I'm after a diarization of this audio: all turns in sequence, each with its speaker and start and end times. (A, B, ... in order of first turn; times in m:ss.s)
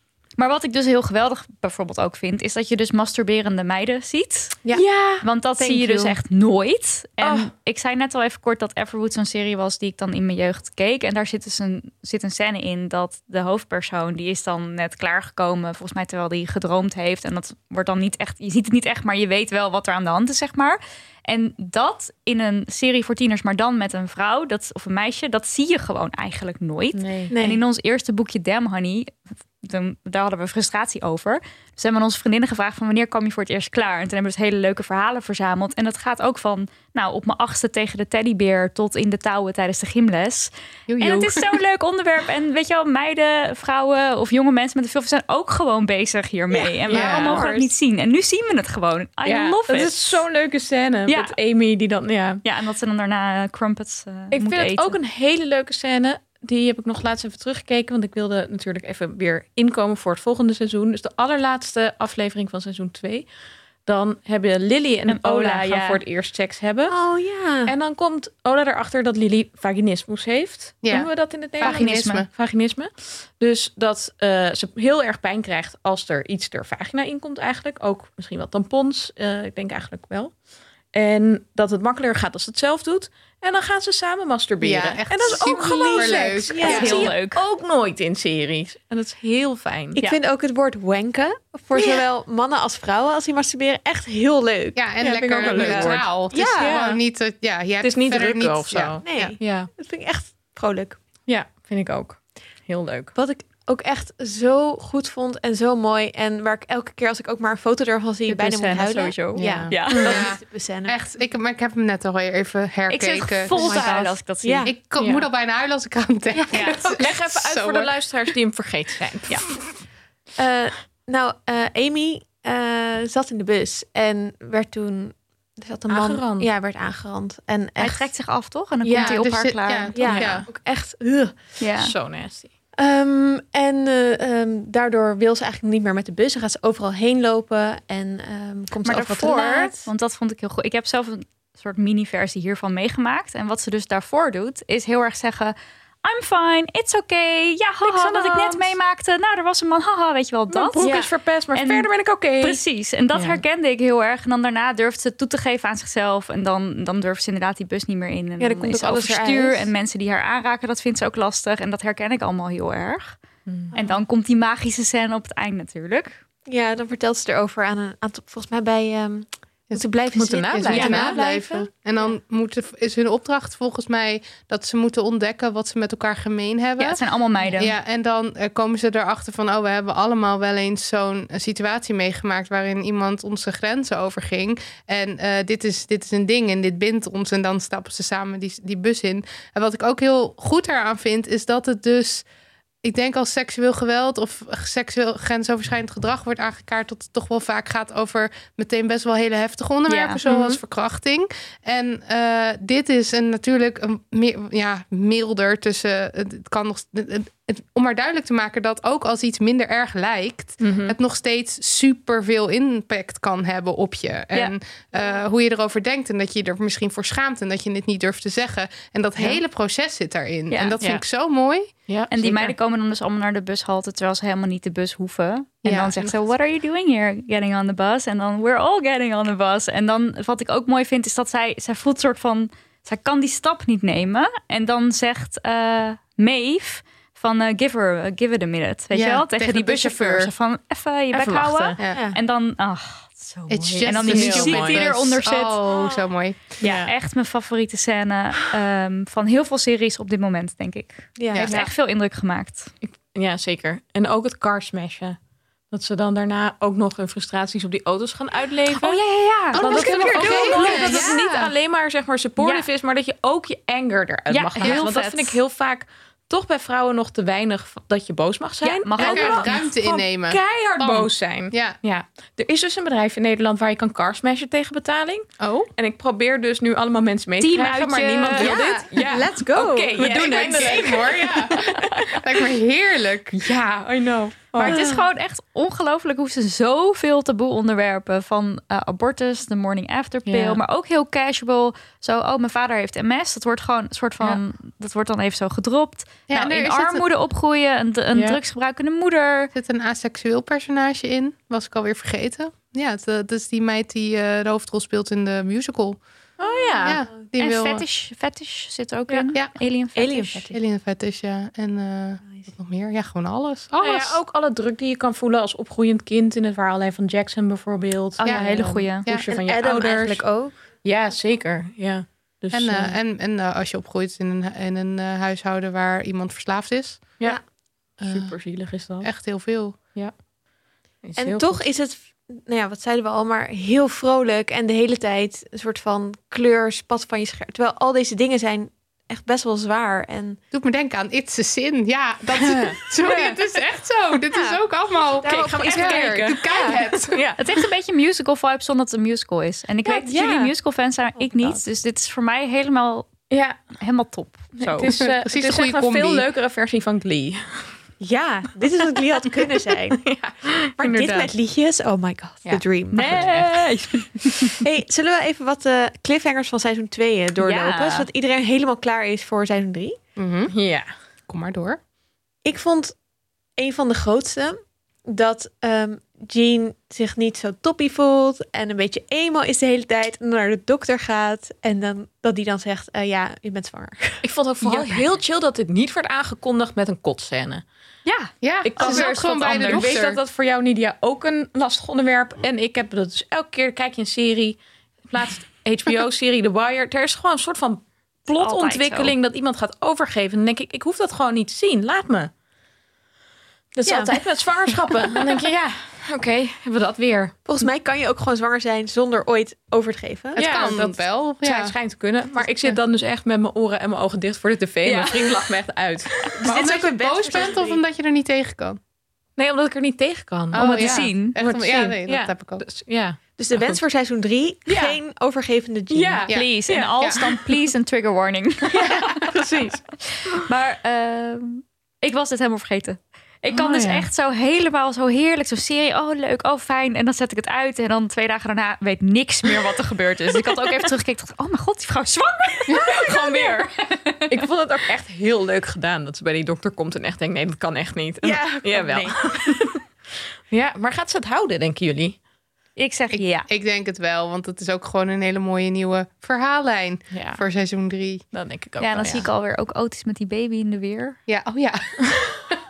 0:00.4-0:04.6 A
0:04.7-0:05.2 B
0:05.2-0:50.2 A
0:05.6-0:06.2 C
0:07.2-0:07.5 B
0:26.9-0:27.3 B
0:27.3-0:27.6 C
0:40.9-0:41.6 D
0:46.5-0:47.7 C
0:46.9-0:47.4 D
0:47.1-0:47.3 B
0:49.2-0:52.4 B
0:51.1-0:51.3 A
0:52.4-0:55.0 A
0:54.3-1:03.3 B
1:03.8-1:06.9 B
1:05.1-1:06.0 A
1:06.9-1:07.7 C
1:07.7-1:20.3 B
1:10.8-1:12.3 D
1:11.6-1:12.2 A
1:20.9-1:30.0 B
1:24.6-1:27.1 D
1:25.4-1:27.1 C
1:26.6-1:27.4 A
1:29.9-1:34.8 C
1:34.7-1:39.3 D
1:35.0-1:37.0 B
1:35.4-1:36.8 C
1:37.8-1:39.7 B
1:39.0-1:41.0 C
1:41.3-1:43.1 B
1:43.1-1:51.0 C
1:48.3-1:50.3 A
1:49.4-1:53.9 D
1:49.9-1:50.2 B
1:52.9-1:54.7 A
1:53.5-1:54.7 C
1:54.6-1:57.9 D
1:55.0-1:55.3 B
1:56.3-1:56.8 C
1:56.5-1:56.9 A
1:56.9-1:59.7 B
2:00.4-2:08.1 C
2:05.9-2:06.5 B
2:07.8-2:10.3 A
2:08.9-2:10.5 D
2:09.9-2:11.4 C
2:10.1-2:10.4 B
2:11.6-2:11.9 A
2:11.8-2:12.5 B
2:12.8-2:19.9 C
2:18.8-2:30.9 A
2:27.8-2:28.8 B
2:30.5-2:32.6 B
2:30.8-2:31.1 C
2:31.5-2:43.2 A
2:33.1-2:33.4 B
2:38.4-2:39.6 C
2:38.8-2:39.1 B
2:43.5-2:43.7 B
2:43.7-2:46.2 A
2:43.7-2:44.0 C
2:46.5-2:51.7 C
2:50.1-2:51.2 B
2:50.5-2:57.0 D
2:50.7-2:51.0 A
2:56.8-2:57.7 A
2:57.5-3:12.2 D
3:12.8-3:41.7 D
3:19.9-3:20.2 A
3:20.2-3:20.6 B
3:30.6-3:31.0 B
3:40.5-3:40.8 A
3:41.9-3:42.5 B
3:42.1-4:05.6 A
3:45.6-3:46.2 D
3:58.9-4:00.3 D
4:01.1-4:01.8 B
4:01.9-4:02.2 C
4:03.5-4:06.6 D
4:03.8-4:04.8 B
4:05.7-4:06.0 C
4:06.6-4:12.7 A
4:06.6-4:06.9 B
4:11.2-4:11.6 C
4:11.3-4:11.6 D
4:12.8-4:15.2 B
4:15.7-4:19.0 B
4:18.7-4:21.2 A
4:19.5-4:21.5 D
4:19.5-4:42.2 B
4:20.5-4:20.9 C
4:22.4-4:22.7 A
4:24.3-4:25.4 A
4:28.6-4:29.6 A
4:29.0-4:31.8 D
4:35.4-4:35.7 D
4:37.4-4:38.7 A
4:38.4-4:40.7 C
4:40.0-4:43.5 D
4:40.1-4:40.6 A
4:43.3-4:44.8 B
4:44.6-4:59.5 A
4:44.6-4:45.0 C
4:50.2-4:50.6 B
4:56.3-4:57.0 D
4:58.1-4:58.4 B
4:59.5-5:06.0 D
5:06.4-5:07.0 B
5:06.4-5:07.2 C
5:06.8-5:07.8 D
5:07.4-5:10.5 A
5:09.9-5:10.6 C
5:10.5-5:14.2 D
5:13.8-5:20.2 B
5:18.2-5:19.1 A
5:18.2-5:19.3 D
5:19.3-5:20.6 C
5:20.8-5:23.0 B
5:22.5-5:27.2 D
5:28.0-5:29.1 B
5:28.0-5:28.3 D
5:29.0-5:29.8 D
5:31.0-5:31.6 B
5:31.2-5:40.4 C
5:40.5-5:47.2 D
5:42.4-5:43.4 B
5:44.3-5:44.6 C
5:45.2-5:46.8 C
5:45.2-5:47.4 B
5:47.4-5:53.2 A
5:49.8-5:50.5 C
5:51.2-5:51.6 C
5:53.3-5:53.6 B
5:53.8-5:55.0 A
5:54.6-5:57.7 B
5:54.8-5:56.3 D
5:58.0-6:00.0 C
6:00.0-6:01.3 B
6:00.8-6:03.4 C
6:02.4-6:03.6 B
6:02.9-6:04.6 A
6:04.6-6:10.0 C
6:07.4-6:08.1 A
6:10.2-6:10.5 D
6:10.5-6:10.9 B
6:11.3-6:11.8 D
6:12.4-6:13.0 C
6:13.6-6:25.0 C
6:24.2-6:27.6 B
6:28.0-6:30.0 A
6:28.4-6:30.2 D
6:28.6-6:42.3 B
6:38.3-6:39.1 A
6:43.7-6:47.4 B
6:43.8-6:45.2 C
6:47.4-6:50.5 C
6:50.4-6:51.8 D
6:50.4-6:56.4 B
6:52.4-6:52.8 D
6:54.8-6:55.5 A
6:56.4-6:57.8 C
6:56.4-6:58.8 D
6:59.4-7:03.8 B
7:00.5-7:02.6 D
7:00.6-7:01.4 A
7:03.4-7:06.2 C
7:04.7-7:05.0 B
7:05.9-7:07.6 B
7:06.3-7:07.2 D
7:06.3-7:24.4 A
7:08.7-7:10.4 B
7:13.5-7:14.0 B
7:22.7-7:23.7 B
7:24.3-7:29.8 B
7:28.2-7:29.3 C
7:30.5-7:32.2 B
7:32.8-7:33.5 A
7:33.1-7:38.2 D
7:37.1-7:37.4 B
7:38.3-7:39.3 B
7:38.8-7:41.2 A
7:41.3-7:42.0 D